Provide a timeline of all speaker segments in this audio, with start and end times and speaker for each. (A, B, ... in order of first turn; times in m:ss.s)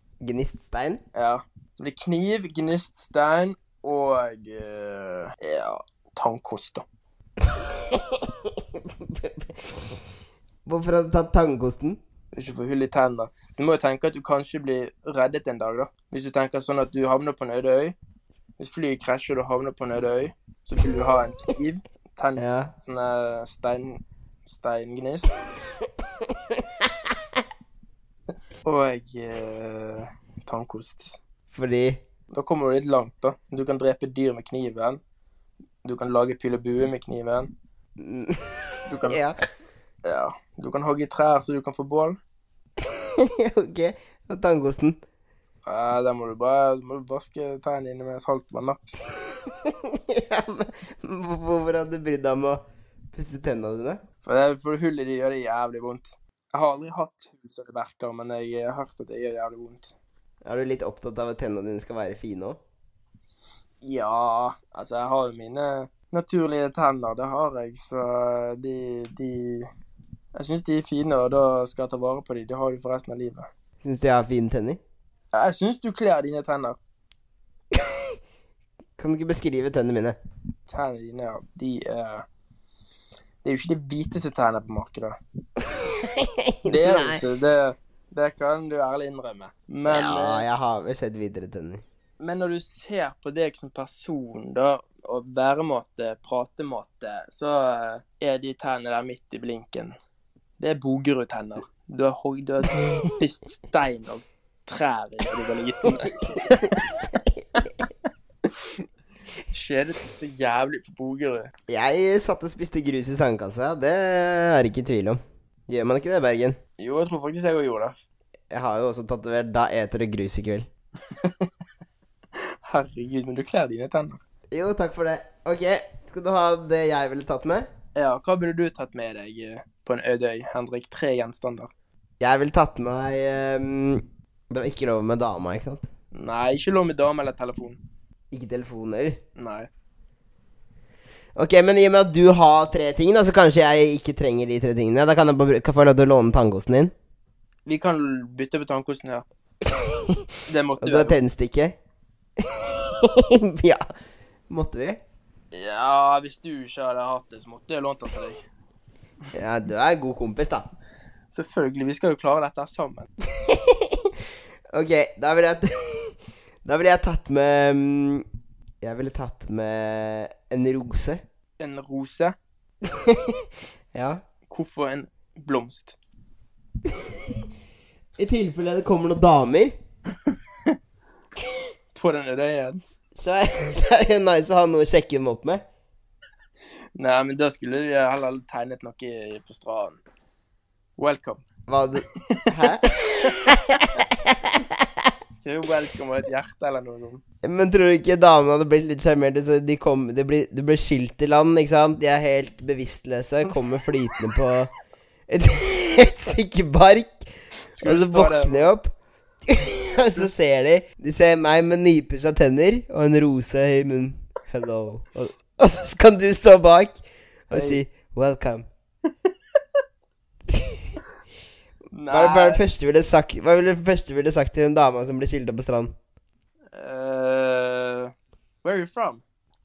0:00.2-0:01.0 A
0:01.1-0:06.8 B
0:07.4-0:10.0 A
0:10.6-0:12.0 A
0:12.3-0:18.0 B
0:18.6-0:25.3 B
0:22.4-0:22.7 A
0:28.6-0:31.2 B
0:31.5-0:32.0 A
0:32.3-0:35.0 B
0:35.8-0:37.5 B
0:38.0-0:39.4 A
0:38.9-0:39.3 B
0:40.0-0:42.2 B
0:42.8-0:45.0 A
0:45.6-0:48.8 B
0:49.5-0:52.6 A
0:53.1-0:54.0 A
0:54.2-0:59.9 B
1:00.4-1:02.6 A
1:03.8-1:09.7 B
1:10.4-1:13.5 B
1:13.8-1:14.8 A
1:15.3-1:16.8 B
1:19.0-1:20.2 A
1:20.7-1:22.2 B
1:23.4-1:25.2 B
1:25.7-1:27.2 A
1:26.6-1:30.4 B
1:29.9-1:31.8 A
1:32.2-1:39.9 B
1:40.6-1:46.8 B
1:46.5-1:47.6 A
1:48.4-1:48.8 B
1:49.5-1:51.5 B
1:51.7-1:56.6 A
1:56.8-1:58.0 B
1:58.5-2:00.7 A
2:01.1-2:01.5 B
2:02.4-2:04.2 B
2:04.5-2:07.7 A
2:07.9-2:11.7 B
2:12.2-2:15.9 A
2:16.1-2:17.8 B
2:18.3-2:19.2 A
2:19.4-2:19.7 B
2:21.4-2:26.9 A
2:27.6-2:29.2 B
2:29.8-2:30.2 A
2:30.4-2:31.2 B
2:30.8-2:31.8 A
2:32.4-2:33.8 A
2:34.5-2:35.0 A
2:35.5-2:38.4 B
2:39.3-2:40.7 A
2:41.3-2:43.1 B
2:43.4-2:44.1 A
2:44.7-2:48.2 A
2:48.8-2:51.2 A
2:51.6-2:52.3 B
2:52.8-2:54.2 A
2:54.5-2:56.0 B
2:58.2-2:59.7 A
3:01.9-3:02.8 B
3:03.2-3:05.6 A
3:07.0-3:10.0 B
3:11.0-3:11.4 B
3:11.7-3:15.1 A
3:12.3-3:13.3 B
3:15.4-3:17.2 B
3:17.4-3:24.7 A
3:25.3-3:27.2 A
3:27.7-3:28.7 B
3:27.8-3:28.9 A
3:29.5-3:38.6 A
3:37.5-3:37.8 B
3:40.5-3:40.9 A
3:41.9-3:42.6 B
3:42.1-3:45.9 A
3:46.7-3:48.1 B
3:48.6-3:49.2 B